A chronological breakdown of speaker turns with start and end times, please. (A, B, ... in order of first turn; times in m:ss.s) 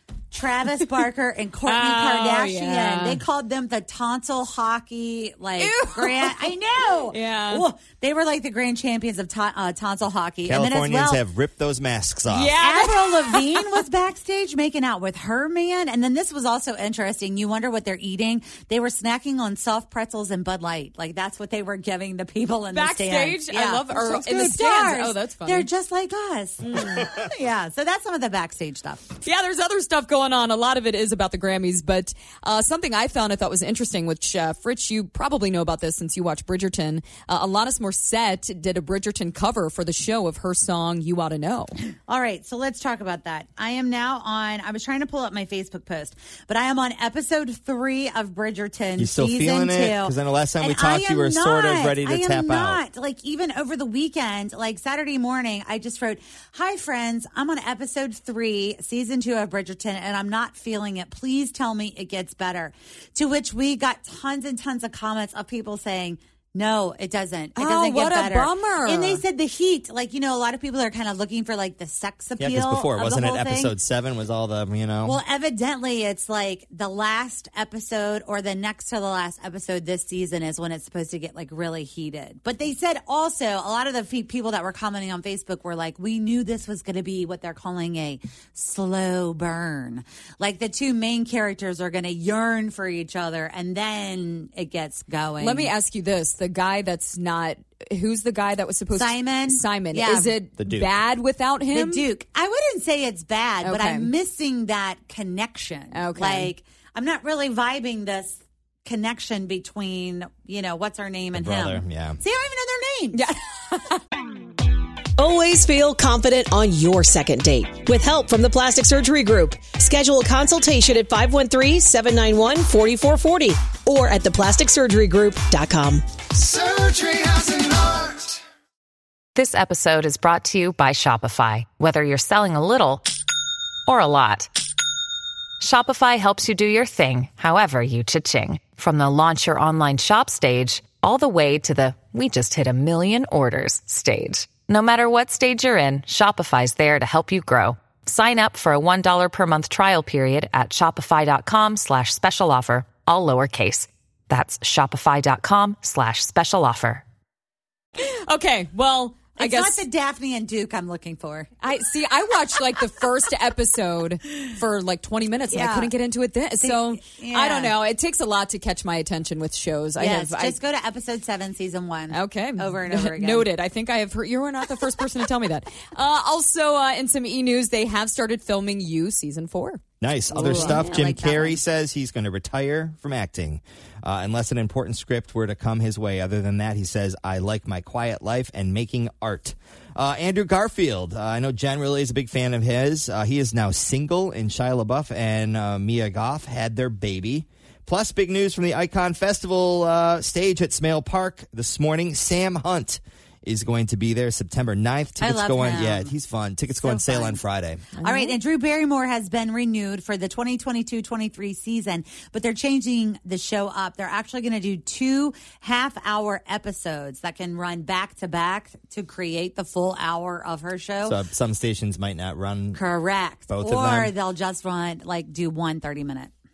0:00.3-0:11.2 A
0:01.6-0:03.2 B
0:05.6-0:07.7 B
0:10.5-0:12.6 C
0:12.3-0:13.8 B
0:12.6-0:29.0 A
0:22.7-0:25.7 B
0:26.6-0:27.1 B
0:29.2-0:41.8 B
0:42.1-1:13.8 A
0:49.0-0:52.8 C
1:07.6-1:09.2 B
1:12.4-1:15.2 C
1:15.0-1:35.7 A
1:35.4-1:42.1 B
1:38.9-1:40.4 A
1:40.6-1:40.9 C
1:41.7-1:53.2 A
1:43.6-1:44.1 B
1:45.9-1:46.5 B
1:51.4-1:52.2 C
1:53.1-1:54.0 B
1:55.2-2:08.3 D
2:09.4-2:13.1 E
2:13.9-2:14.5 E
2:15.6-2:37.0 E
2:38.0-2:39.8 B
2:39.4-2:41.5 A
2:41.6-2:50.6 B
2:45.5-2:45.9 A
2:46.6-2:47.8 A
2:50.0-2:53.5 A
2:52.1-2:59.8 B
3:00.0-3:27.9 C
3:00.3-3:01.0 B
3:00.3-3:01.6 A
3:25.2-3:26.1 A
3:26.8-3:27.4 A
3:27.9-3:28.4 B
3:28.0-3:41.2 A
3:41.0-3:42.8 C
3:42.8-3:46.3 A
3:43.5-3:44.1 C